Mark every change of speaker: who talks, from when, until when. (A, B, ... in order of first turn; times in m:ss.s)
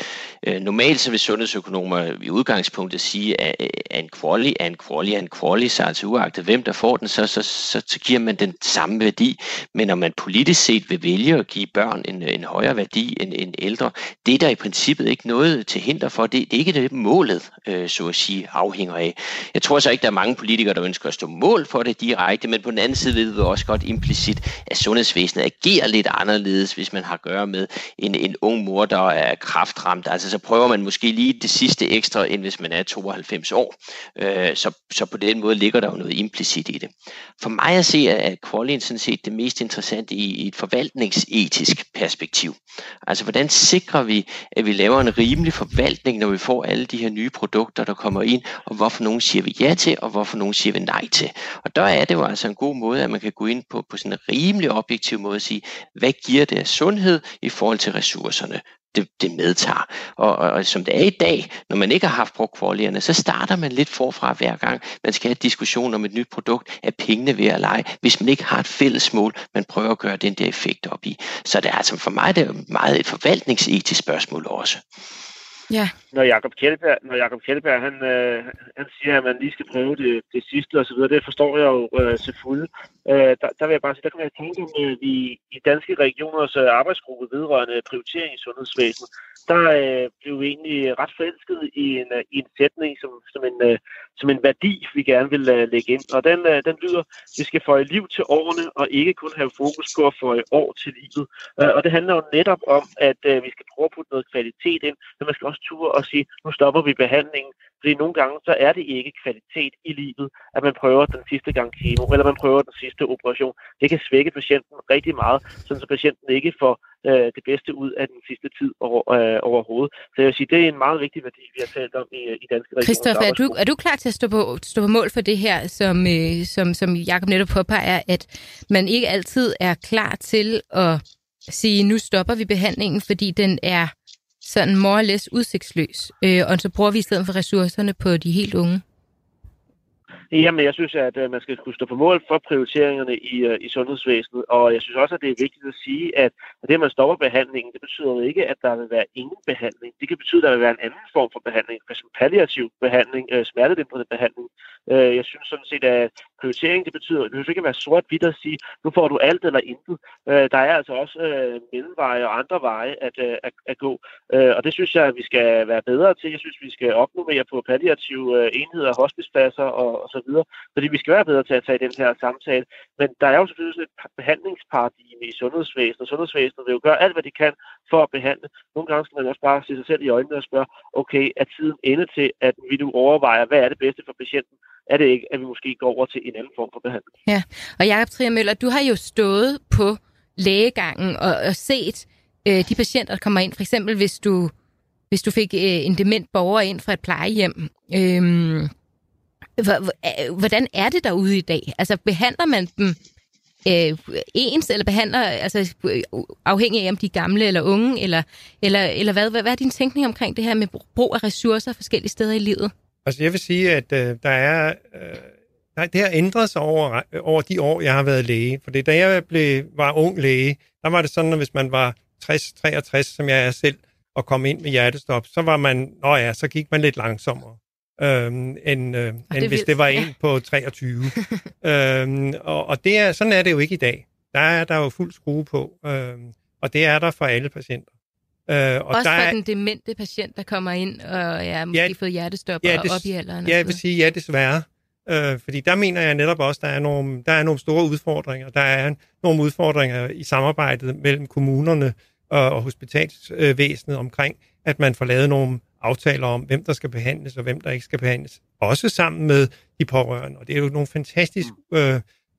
0:00.4-1:14.8 A
1:16.1-2:03.6 B
2:02.8-2:18.8 C
2:20.3-3:07.0 B
3:07.3-3:14.5 C
3:15.1-3:18.7 C
3:19.6-3:23.0 C
3:23.6-3:32.7 C
3:33.0-3:57.9 D
3:49.3-3:50.1 C
3:58.5-3:59.4 D
3:58.9-4:03.8 C
4:02.6-4:22.0 D